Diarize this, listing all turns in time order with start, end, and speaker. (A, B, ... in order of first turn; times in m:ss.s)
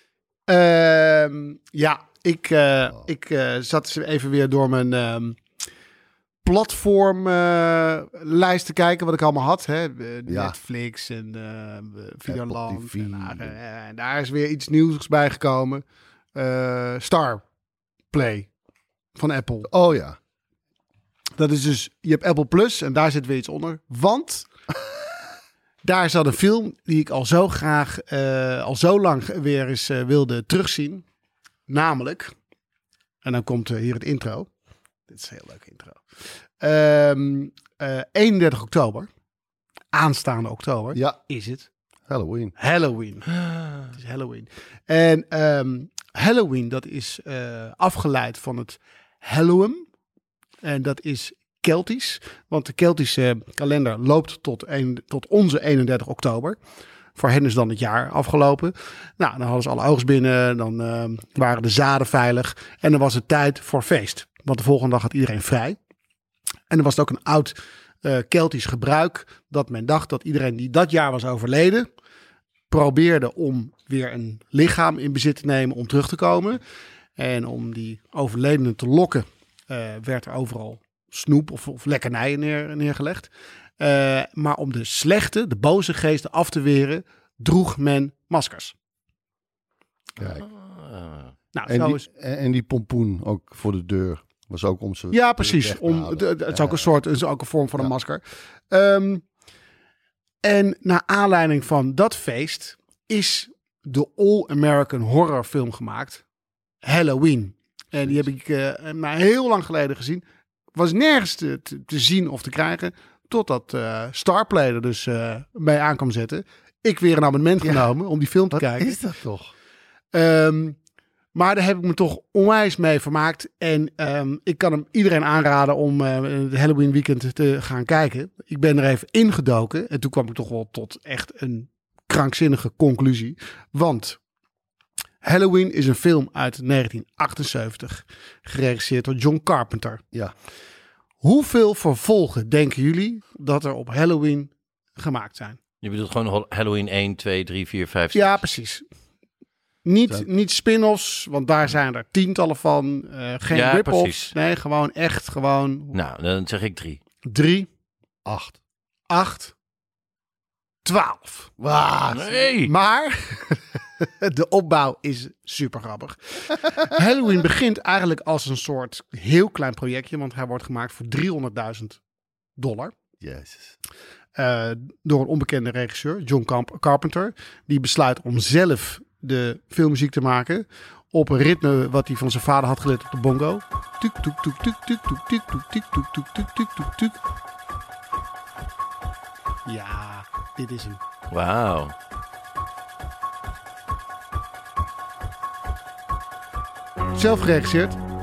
0:00.5-0:05.4 A
0:06.4-0:15.8 A
0:10.3-0:10.6 B
0:12.3-0:13.6 B
0:16.3-0:17.4 A
0:18.1-0:18.5 A
0:19.1-0:19.7 A
0:19.6-0:20.2 B
0:21.4-0:24.5 A
0:25.8-0:31.0 A
0:31.7-0:32.3 A
0:33.2-0:34.5 A
0:35.1-0:36.0 A
0:36.6-0:39.1 A
0:39.9-0:41.7 A
0:42.1-0:42.5 B
0:42.6-0:43.3 A
0:43.8-0:49.8 A
0:50.6-0:56.6 A
0:57.2-1:05.8 A
1:06.7-1:11.9 A
1:12.7-1:16.6 A
1:17.2-1:28.7 A
1:30.2-1:30.4 B
1:30.4-1:31.3 C
1:31.5-1:32.0 A
1:31.7-1:36.8 B
1:35.1-1:39.2 A
1:40.4-1:46.2 A
1:46.8-1:50.2 A
1:50.7-1:59.0 A
1:58.5-1:59.5 B
2:00.1-2:00.8 A
2:01.3-2:14.2 A
2:15.2-2:20.0 A
2:21.2-2:25.6 A
2:25.8-2:28.4 C
2:28.1-2:28.8 A
2:29.8-2:36.0 A
2:33.5-2:34.3 C
2:35.9-2:37.0 C
2:37.2-2:37.7 A
2:38.2-2:38.6 B
2:39.1-2:39.5 A
2:40.8-2:41.5 A
2:41.6-2:42.5 B
2:42.1-2:42.7 C
2:42.6-2:52.0 A
2:52.6-2:52.9 A
2:53.2-2:53.7 B
2:54.4-3:07.2 A
3:09.6-3:11.0 A
3:11.3-3:11.9 C
3:17.1-3:18.0 A